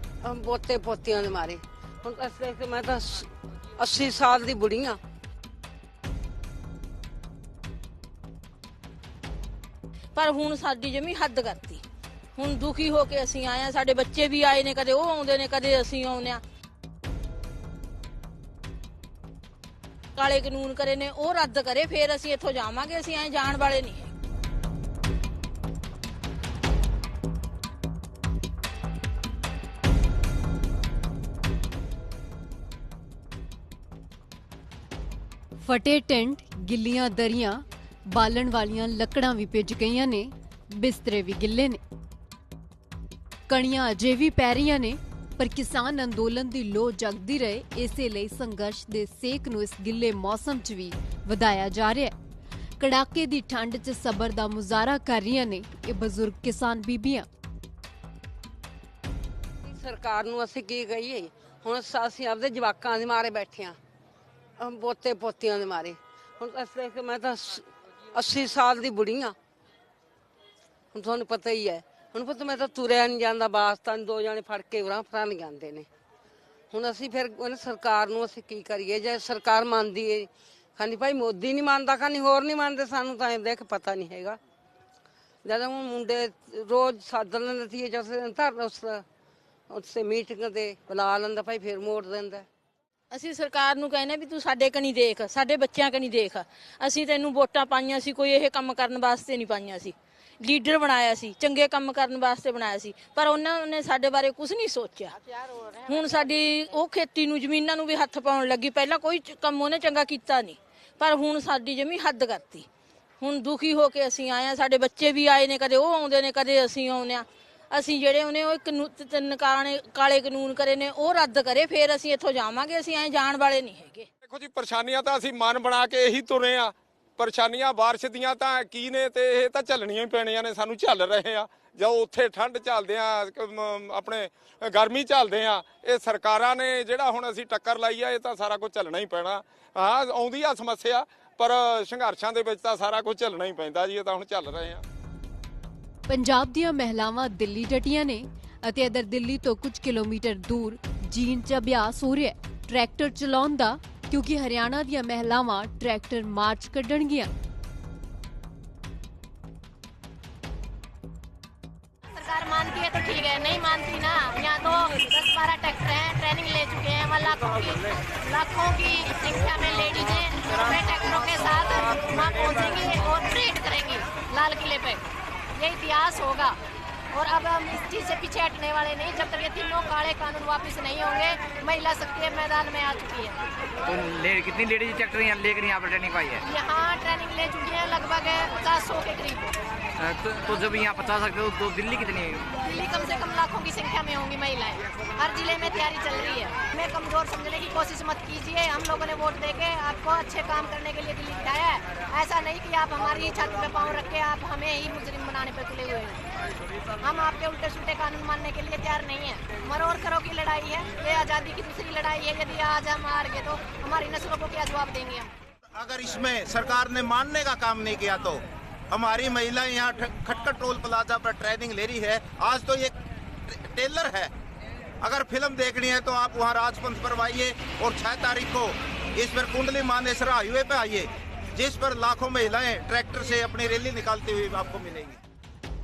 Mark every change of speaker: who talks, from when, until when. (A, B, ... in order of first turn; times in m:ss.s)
0:00.2-0:05.0 A
0:10.1-0:11.8 B
0:12.4-0:16.4 B
0:20.2-0:24.1 B
0:35.6-0:41.8 C
0:43.5-0:52.1 C
0:52.8-0:57.2 C
0:59.7-1:03.8 A
1:04.6-1:09.3 A
1:10.9-1:15.9 A
1:16.7-1:24.4 A
1:25.4-1:29.0 A
1:29.7-1:32.4 A
1:33.1-1:52.6 B
1:53.2-2:04.0 B
2:04.2-2:24.8 D
2:26.1-2:37.3 C
2:42.1-2:56.6 E
2:57.1-3:03.5 E
3:03.8-3:06.4 F
3:06.4-3:09.6 E
3:10.0-3:12.5 F
3:12.6-3:26.3 E
3:27.0-3:35.3 E
3:35.7-3:42.9 G
3:43.5-3:44.3 G
3:45.0-3:55.2 G